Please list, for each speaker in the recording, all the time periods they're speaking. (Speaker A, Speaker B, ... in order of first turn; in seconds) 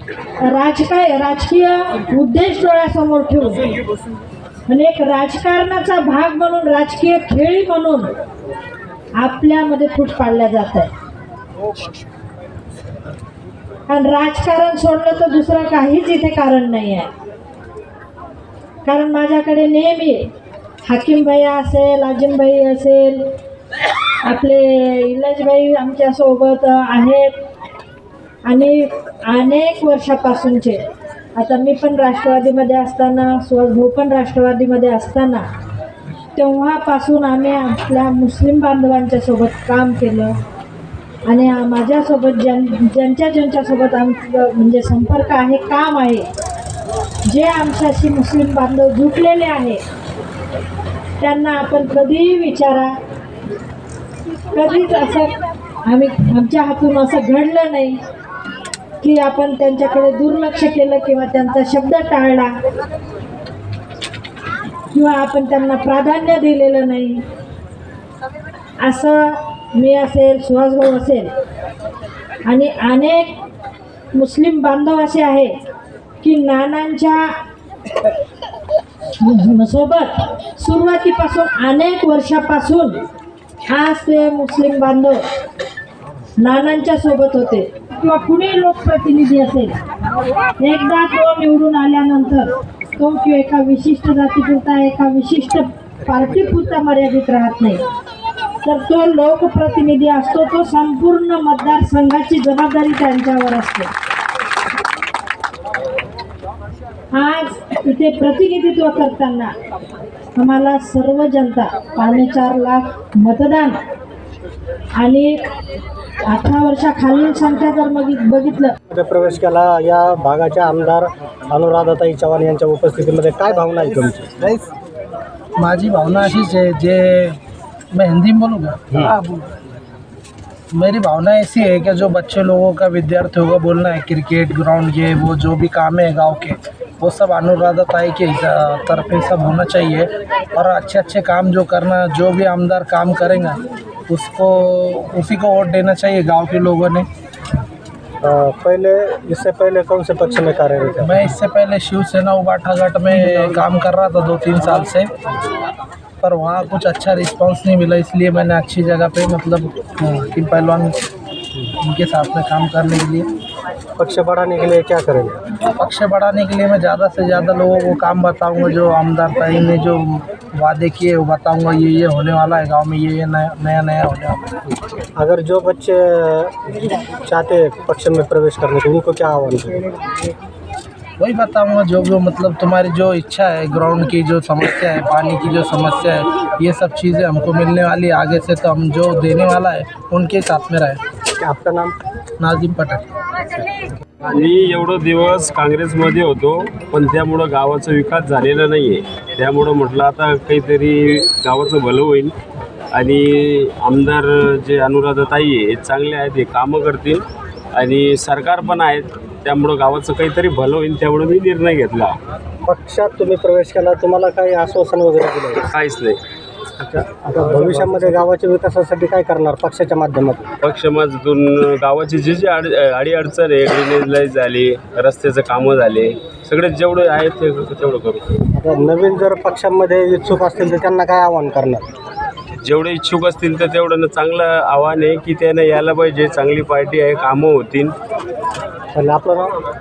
Speaker A: 0.4-3.6, 4.7-8.1, 9.2-10.9, 13.9-17.1, 18.8-20.3, 20.9-23.3, 24.2-27.3, 28.4-30.8, 31.4-35.5, 36.3-40.4, 41.3-46.3, 47.2-49.8, 51.2-53.0, 54.5-55.3, 55.9-58.0, 59.0-62.5, 64.9-67.2, 68.8-71.3, 72.5-73.4, 74.1-75.5, 76.2-77.3, 79.2-83.0, 83.7-85.2, 86.4-89.8, 90.6-97.8, 98.6-103.9, 107.1-109.5, 110.3-113.8, 115.0-115.5, 116.3-118.8
Speaker B: 118.9-124.6, 148.2-151.2, 164.0-165.4, 175.2-176.5, 177.1-179.8, 191.4-191.9, 212.7-215.7, 216.8-220.5, 228.5-231.8, 238.9-239.5
Speaker C: 125.6-127.4, 127.9-129.1, 130.7-143.6, 144.1-147.1, 151.0-155.1, 156.2-160.9, 161.8-163.3, 165.8-174.4, 181.2-191.0, 192.4-193.0
Speaker D: 194.3-202.3, 202.9-212.1, 215.7-216.2, 220.6-228.3, 232.6-237.9